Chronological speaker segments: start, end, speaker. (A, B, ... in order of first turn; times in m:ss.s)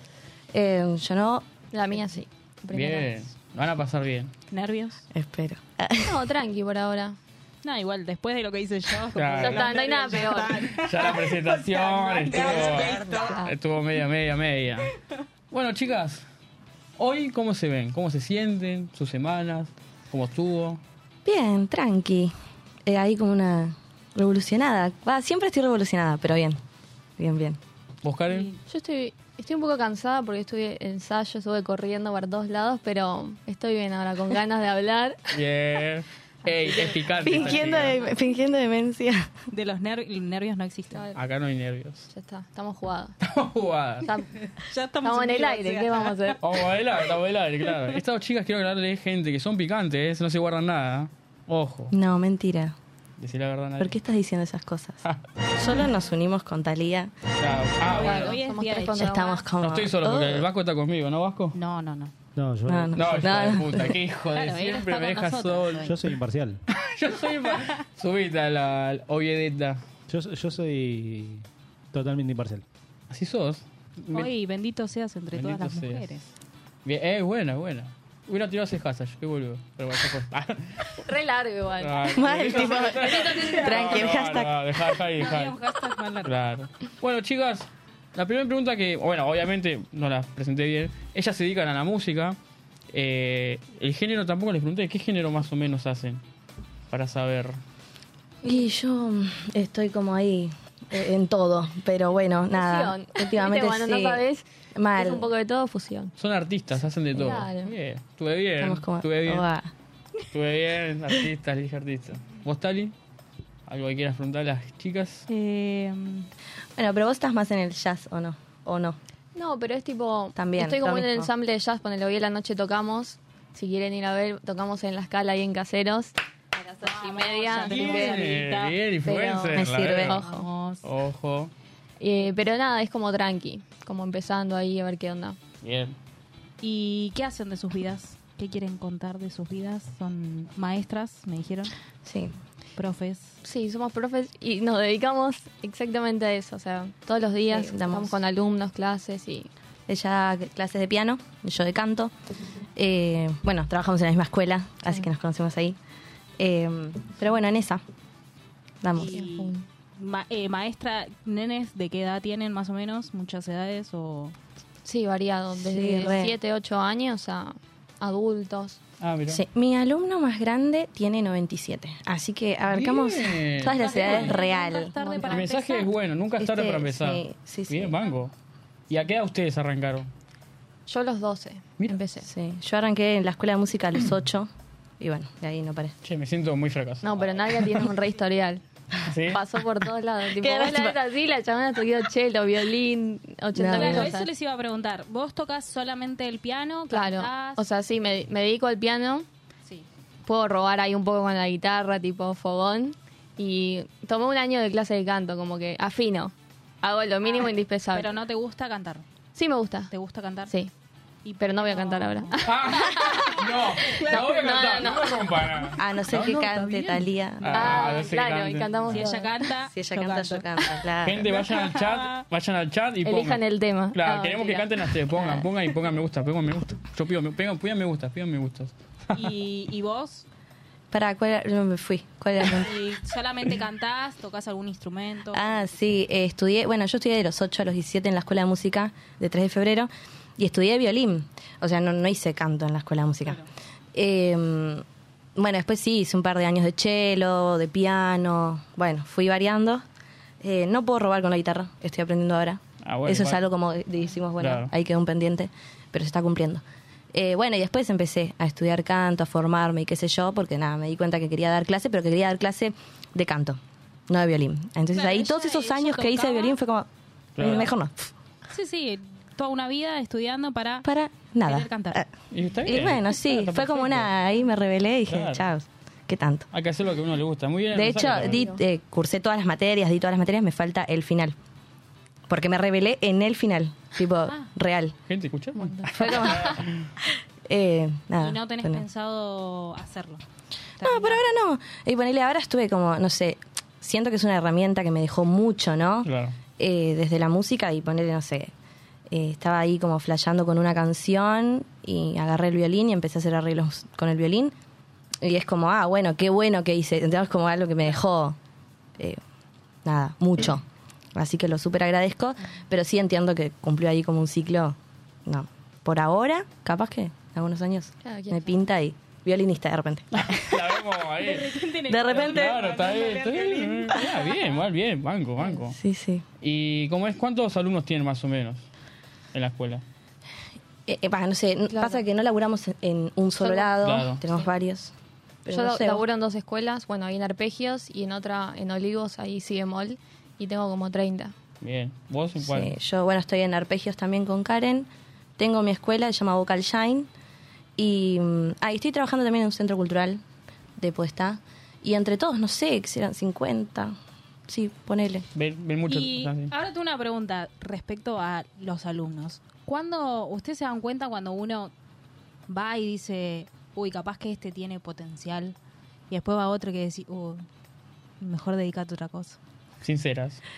0:00.5-0:01.4 A
0:01.7-0:03.1 B
0:02.7-0:04.3 C
0:04.5-0:05.0 D
0:05.1-0:06.2 A
0:06.0-0:07.2 B
0:07.6-0:13.4 D
0:09.2-0:09.8 C
0:09.4-0:10.8 B
0:10.7-0:14.9 C
0:12.5-0:13.5 B
0:15.5-0:16.2 C
0:17.0-0:20.8 C
0:21.2-0:22.3 A
0:22.8-0:26.6 A
0:27.2-0:27.6 A
0:28.0-0:28.5 C
0:28.3-0:28.5 D
0:28.7-0:35.3 B
0:35.3-0:37.9 C
0:36.5-0:38.0 D
0:37.2-0:39.3 A
0:39.5-0:41.1 D
0:40.9-0:41.2 B
0:41.2-0:42.0 C
0:42.1-0:43.2 B
0:43.2-0:44.1 C
0:44.0-0:44.3 B
0:44.6-0:46.4 D
0:45.0-0:46.4 B
0:46.4-0:51.9 C
0:51.9-0:52.8 A
0:53.2-0:54.0 C
0:53.8-0:55.0 A
0:55.5-0:57.1 A
0:57.4-0:58.4 C
0:57.8-0:59.4 D
0:57.9-0:59.4 B
0:58.9-1:00.5 A
0:59.6-1:01.6 C
1:01.5-1:02.1 D
1:02.4-1:03.6 E
1:02.7-1:04.0 A
1:02.9-1:06.0 C
1:04.3-1:06.0 D
1:05.8-1:06.6 E
1:06.7-1:09.8 C
1:10.1-1:12.6 E
1:13.1-1:14.3 C
1:14.1-1:16.2 D
1:15.3-1:16.2 C
1:16.8-1:20.9 C
1:21.0-1:23.8 B
1:21.8-1:25.6 C
1:22.1-1:24.6 A
1:23.2-1:24.0 D
1:25.2-1:26.3 D
1:26.2-1:32.4 C
1:32.9-1:36.2 C
1:36.9-1:37.6 C
1:38.4-1:45.3 A
1:42.5-1:46.1 B
1:46.2-1:49.5 C
1:47.1-1:47.7 B
1:48.6-1:49.7 A
1:50.3-1:52.9 C
1:53.7-1:55.3 C
1:55.3-1:56.3 D
1:56.8-1:59.0 A
1:59.3-2:06.2 B
2:00.4-2:01.3 A
2:06.7-2:08.2 B
2:06.8-2:08.7 D
2:07.6-2:10.2 C
2:09.0-2:10.4 B
2:09.5-2:10.2 A
2:10.1-2:10.8 D
2:10.8-2:11.5 C
2:12.0-2:15.4 B
2:15.6-2:16.0 C
2:16.6-2:21.7 D
2:22.0-2:22.3 A
2:22.8-2:23.4 D
2:23.4-2:29.5 B
2:27.5-2:28.2 A
2:29.9-2:32.1 A
2:32.8-2:35.8 A
2:36.4-2:37.8 A
2:38.8-2:39.2 A
2:39.0-2:44.3 D
2:39.0-2:39.6 B
2:44.8-2:48.8 B
2:45.6-2:46.4 A
2:49.0-2:49.4 C
2:49.3-2:55.3 A
2:52.7-2:54.3 C
2:53.7-2:55.9 D
2:55.0-2:55.3 B
2:55.3-2:58.3 C
2:56.4-2:58.0 A
2:58.9-3:00.1 C
3:00.9-3:02.3 B
3:02.2-3:06.0 A
3:06.0-3:07.8 C
3:07.0-3:08.6 B
3:09.0-3:09.4 C
3:09.3-3:14.3 B
3:10.4-3:11.0 A
3:13.5-3:14.2 A
3:13.7-3:17.6 D
3:16.9-3:19.3 B
3:20.2-3:28.1 B
3:27.2-3:29.0 D
3:29.3-3:29.9 B
3:29.9-3:30.5 D
3:31.2-3:32.5 D
3:31.4-3:35.4 B
3:32.4-3:39.0 C
3:33.9-3:34.2 D
3:35.7-3:37.9 A
3:37.5-3:39.3 B
3:38.9-3:40.5 D
3:39.6-3:41.3 A
3:41.0-3:49.3 C
3:41.3-3:42.2 D
3:43.0-3:44.9 B
3:49.1-3:50.2 D
3:50.9-3:52.8 A
3:52.4-3:55.7 D
3:55.3-4:03.4 A
4:03.9-4:04.8 A
4:05.4-4:09.8 A
4:10.4-4:28.1 A
4:12.8-4:13.4 C
4:14.4-4:14.7 C
4:24.9-4:26.6 D
4:27.4-4:27.7 C
4:28.5-4:30.9 D
4:30.8-4:32.1 A
4:31.4-4:32.0 D
4:32.3-4:34.1 C
4:32.6-4:36.5 A
4:35.1-4:35.4 C
4:36.5-4:38.4 C
4:37.7-4:41.4 A
4:38.2-4:38.6 B
4:42.3-4:45.0 A
4:45.1-4:46.9 C
4:45.6-4:46.6 B
4:46.0-4:48.8 A
4:48.2-4:50.2 D
4:50.8-4:51.2 D
4:50.8-4:58.5 A
4:56.0-4:56.4 C
4:59.1-5:04.5 A
5:05.2-5:08.4 A
5:09.8-5:20.8 A
5:18.0-5:18.6 B
5:20.2-5:25.8 C
5:21.2-5:24.3 D
5:21.9-5:22.7 A
5:25.7-5:26.2 A
5:26.4-5:28.6 C
5:29.3-5:29.8 C
5:30.9-5:34.9 A
5:31.7-5:32.0 B
5:33.4-5:33.8 B
5:33.8-5:34.2 C
5:35.4-5:36.0 A
5:35.5-5:41.3 B
5:41.6-5:42.7 C
5:42.4-5:47.1 A
5:47.8-5:50.2 A
5:50.8-5:53.9 A
5:54.5-5:55.2 A
5:55.3-5:56.5 C
5:55.9-6:01.7 D
6:02.5-6:05.6 D
6:06.1-6:07.4 D
6:08.2-6:09.4 D
6:09.8-6:10.4 C